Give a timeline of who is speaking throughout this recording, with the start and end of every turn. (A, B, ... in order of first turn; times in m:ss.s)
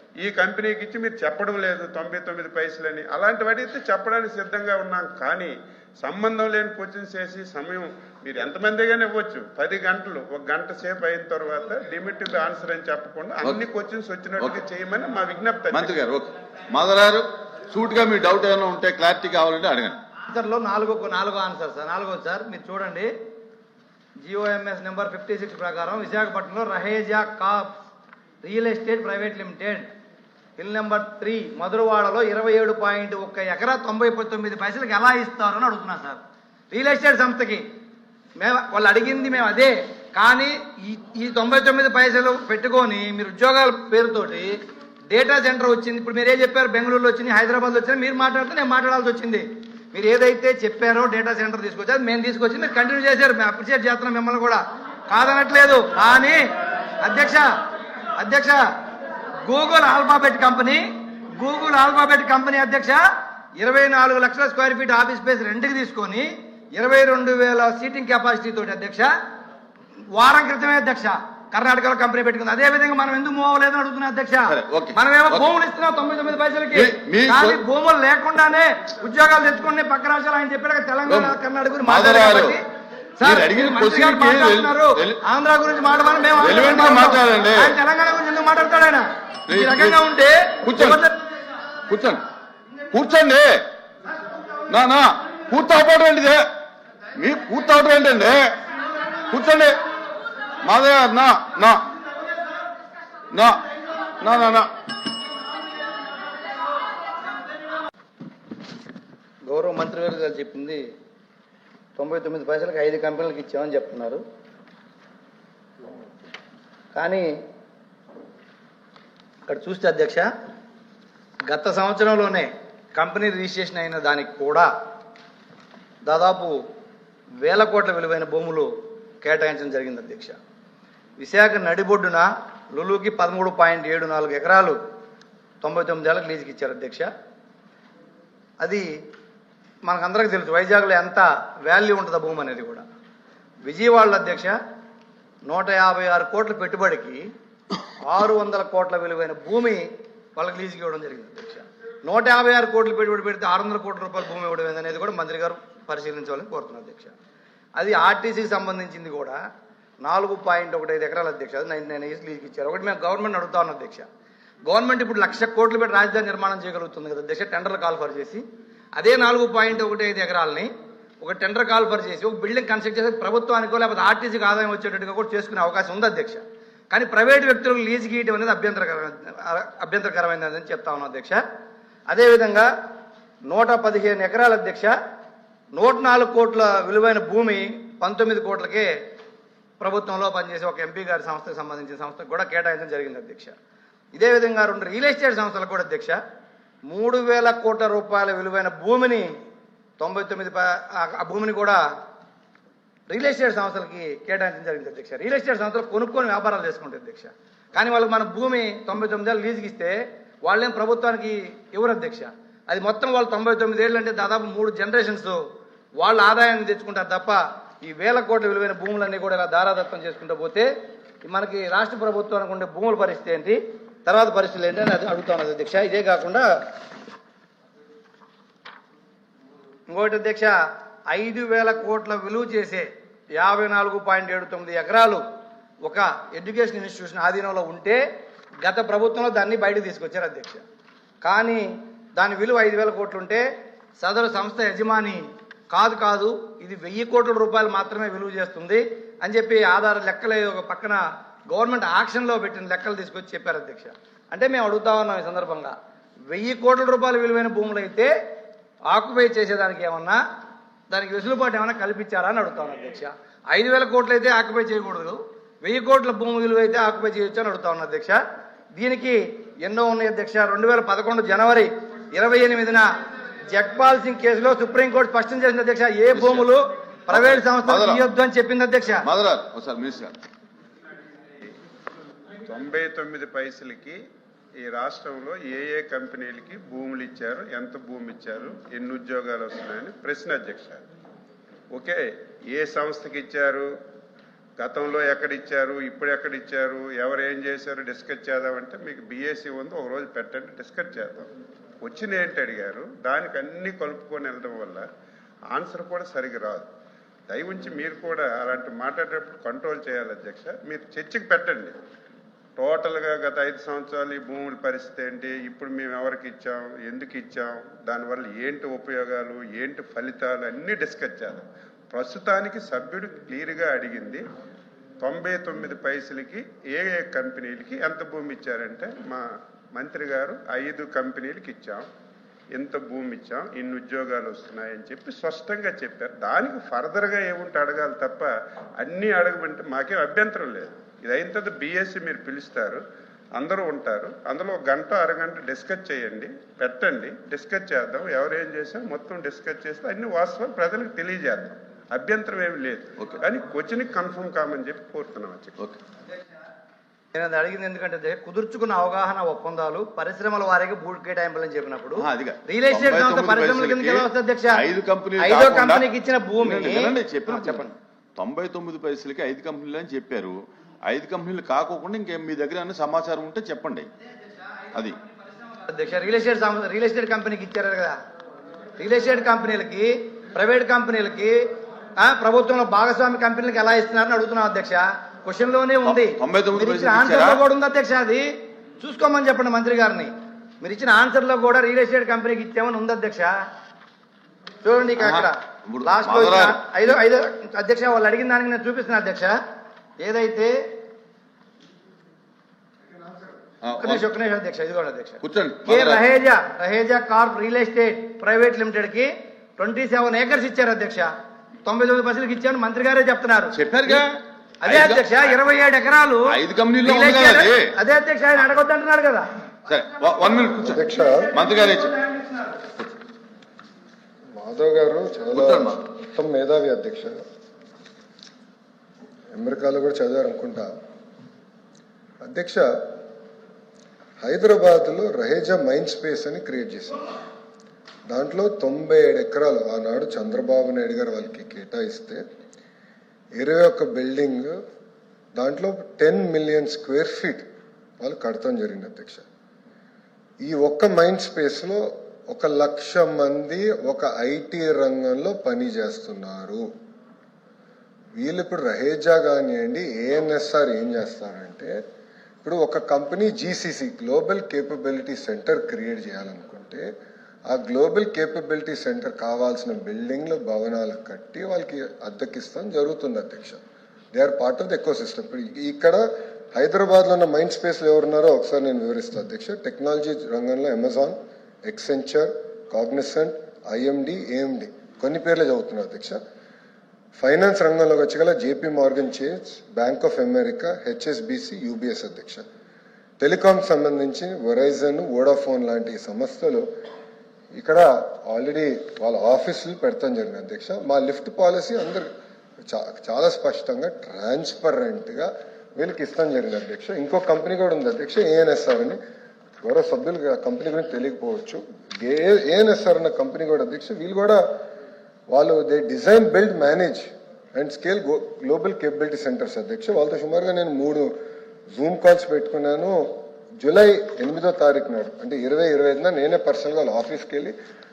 0:00.2-0:16.0 A
0:15.7-0:20.0 B
0:20.3-0:23.1 C
0:24.2-0:27.8 C
0:28.4-0:29.9 C
0:30.6-0:37.7 C
0:38.4-0:56.4 C
0:57.0-0:57.5 C
0:58.2-0:58.6 C
0:59.4-1:03.0 C
1:03.6-1:09.1 C
1:10.1-1:22.6 C
1:14.5-1:15.5 B
1:16.7-1:17.6 B
1:21.1-1:21.3 B
1:21.8-1:22.6 B
1:23.2-1:31.2 C
1:23.2-1:25.2 B
1:26.4-1:27.8 B
1:29.5-1:30.0 B
1:30.6-1:31.0 B
1:31.9-1:32.2 B
1:32.9-1:33.6 B
1:34.7-1:36.4 B
1:37.2-1:38.6 B
1:39.3-1:39.8 B
1:40.6-1:41.9 B
1:43.3-1:43.7 B
1:44.2-1:44.7 B
1:49.5-1:50.8 C
1:52.0-1:54.2 C
1:56.9-1:57.3 C
1:59.5-2:00.3 C
2:01.5-2:04.7 C
2:06.0-2:06.6 C
2:07.4-2:08.7 C
2:09.2-2:10.4 C
2:11.2-2:14.8 C
2:15.6-2:17.1 C
2:18.6-2:18.9 C
2:19.8-2:22.9 C
2:23.6-2:24.6 C
2:25.5-2:27.2 C
2:28.0-2:37.1 C
2:37.8-2:39.4 C
2:40.0-2:44.1 C
2:44.7-2:48.4 C
2:49.0-3:01.4 C
3:02.1-3:02.7 C
3:03.5-3:04.9 C
3:05.7-3:08.9 C
3:09.8-3:13.6 C
3:14.1-3:16.2 C
3:16.9-3:19.3 C
3:20.0-3:21.8 C
3:23.1-3:35.4 C
3:36.0-3:40.7 C
3:41.2-3:46.5 C
3:49.9-3:50.6 C
3:51.1-3:55.2 C
3:55.8-3:58.0 C
3:58.6-4:00.6 C
4:01.2-4:03.4 C
4:04.0-4:15.8 C
4:16.3-4:18.1 C
4:18.9-4:20.2 C
4:20.9-4:28.2 C
4:28.7-4:32.9 C
4:33.5-4:39.1 C
4:36.1-4:36.5 B
4:37.1-4:38.0 B
4:39.0-4:40.2 B
4:42.4-4:44.0 A
4:44.6-4:50.9 A
4:51.7-4:53.7 A
4:54.6-5:01.3 A
5:01.8-5:04.9 A
5:05.5-5:06.7 A
5:07.3-5:11.8 A
5:12.6-5:24.2 A
5:25.0-5:31.9 A
5:32.5-5:42.8 A
5:43.4-5:55.6 A
5:57.1-6:04.6 C
6:02.0-6:05.8 B
6:05.2-6:07.8 C
6:06.4-6:13.9 B
6:15.6-6:18.0 C
6:18.8-6:21.4 C
6:22.0-6:33.4 C
6:25.8-6:27.4 B
6:34.6-6:39.4 C
6:35.0-6:36.6 B
6:40.0-6:40.6 C
6:43.6-6:44.1 B
6:43.8-6:51.1 C
6:45.2-6:46.0 B
6:51.6-6:54.0 C
6:53.5-6:55.4 B
6:54.6-6:56.3 C
6:56.3-6:57.7 B
6:56.8-6:59.3 C
6:59.7-7:02.0 B
7:00.6-7:01.3 D
7:01.9-7:02.5 C
7:04.4-7:07.2 D
7:05.3-7:05.8 B
7:09.4-7:10.7 D
7:12.2-7:12.8 D
7:14.2-7:17.1 D
7:18.1-7:22.2 D
7:23.4-7:24.6 D
7:25.4-7:27.5 D
7:28.0-7:29.2 D
7:30.4-7:36.6 D
7:38.2-7:41.8 D
7:42.4-7:46.8 D
7:47.5-7:53.6 D
7:54.1-7:56.0 D
7:56.5-8:06.2 D
8:07.2-8:12.4 D
8:13.2-8:16.6 D
8:17.6-8:22.1 D
8:22.7-8:29.0 D
8:29.6-8:34.4 D
8:35.3-8:41.1 D
8:41.8-8:43.0 D
8:43.6-8:47.6 D